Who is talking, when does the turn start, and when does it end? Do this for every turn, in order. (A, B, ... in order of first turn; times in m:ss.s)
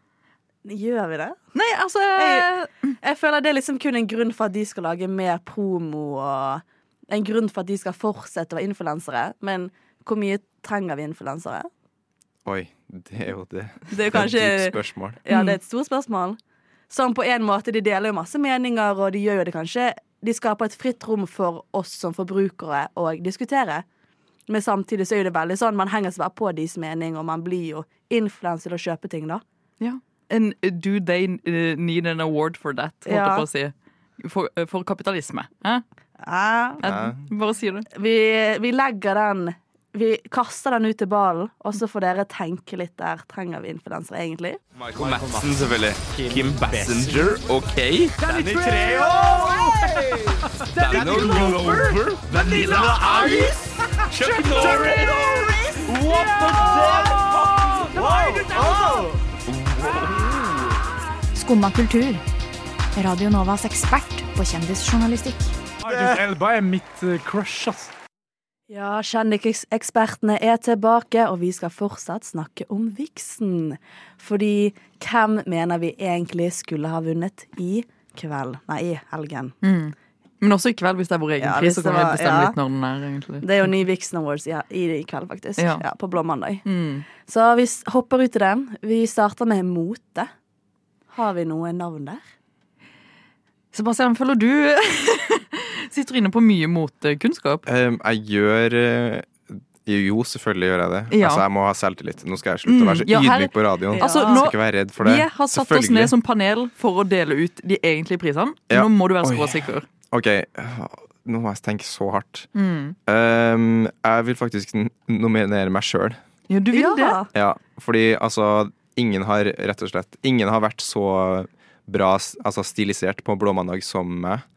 0:00.6-0:01.4 A
0:01.6-0:02.9 B
0:02.2-0:02.5 A
0:03.0-0:11.7 A
0:12.4-0:15.2 C
0:13.9-0:16.4 A
0:15.3-0:15.6 B
0:16.9-0:23.8 A
0:24.5-0:29.4 A
0:29.8-0:35.8 B
0:33.1-0:33.5 A
0:36.2-0:36.8 A
0:36.8-0:37.9 B
0:36.8-0:37.2 C
0:37.9-0:44.6 A
0:44.8-1:00.8 D
0:45.0-0:45.4 E
0:46.2-0:47.3 E
0:48.2-0:59.1 E
1:01.4-1:02.2 F
1:03.0-1:05.6 F
1:05.8-1:07.9 E
1:05.9-1:06.2 D
1:08.7-1:19.5 A
1:19.6-1:23.7 B
1:21.4-1:22.6 A
1:23.4-1:26.6 A
1:25.6-1:25.8 B
1:26.6-1:27.1 B
1:27.2-1:30.3 A
1:31.1-1:32.2 A
1:33.7-1:37.6 B
1:37.7-1:46.1 C
1:41.1-1:41.4 B
1:42.7-1:49.9 B
1:43.9-1:44.5 A
1:48.7-1:52.5 C
1:52.6-1:53.0 B
1:53.1-1:56.2 C
1:56.5-1:57.2 B
1:56.7-1:57.3 A
1:57.3-2:04.4 C